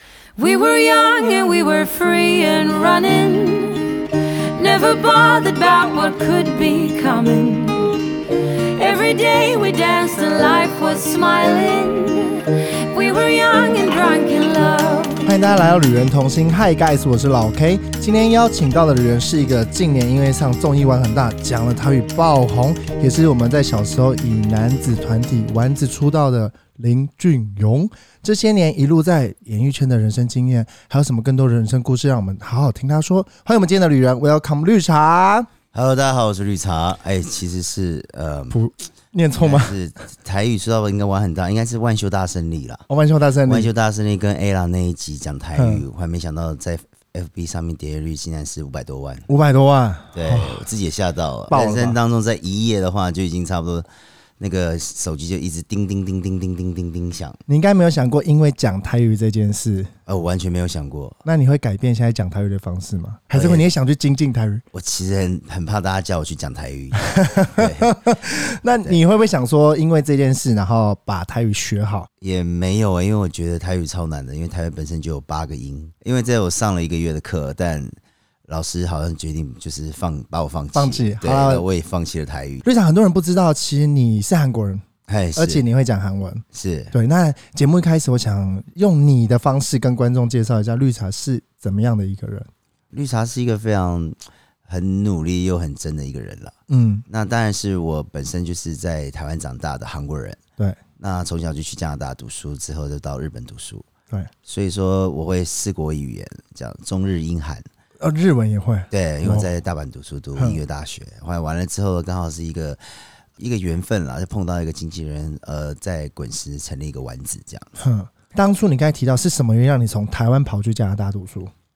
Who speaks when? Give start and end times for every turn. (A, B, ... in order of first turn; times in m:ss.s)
0:00.4-0:15.3 A
0:15.2-0:35.5 B
0:35.7-0:38.6 C
0:38.5-0:39.7 B
0:39.3-0:42.8 C
0:42.9-0:43.7 B
0:43.4-0:49.2 C
0:45.5-0:45.8 B
0:49.3-0:50.7 B
0:50.1-0:53.9 C
0:51.5-0:52.0 B
0:54.4-0:57.4 C
0:57.5-0:59.9 B
1:00.1-1:01.2 C
1:01.2-1:04.6 B
1:03.3-1:03.7 C
1:04.7-1:08.1 C
1:06.9-1:12.1 B
1:12.2-1:22.6 C
1:20.7-1:21.6 B
1:22.6-1:24.8 B
1:25.1-1:25.6 C
1:25.4-1:32.5 B
1:26.5-1:26.9 C
1:32.9-1:36.6 C
1:36.7-1:37.0 B
1:37.1-1:40.4 C
1:41.0-1:43.8 C
1:44.4-1:47.6 C
1:48.0-1:49.5 B
1:48.9-1:57.7 C
1:57.8-2:01.5 B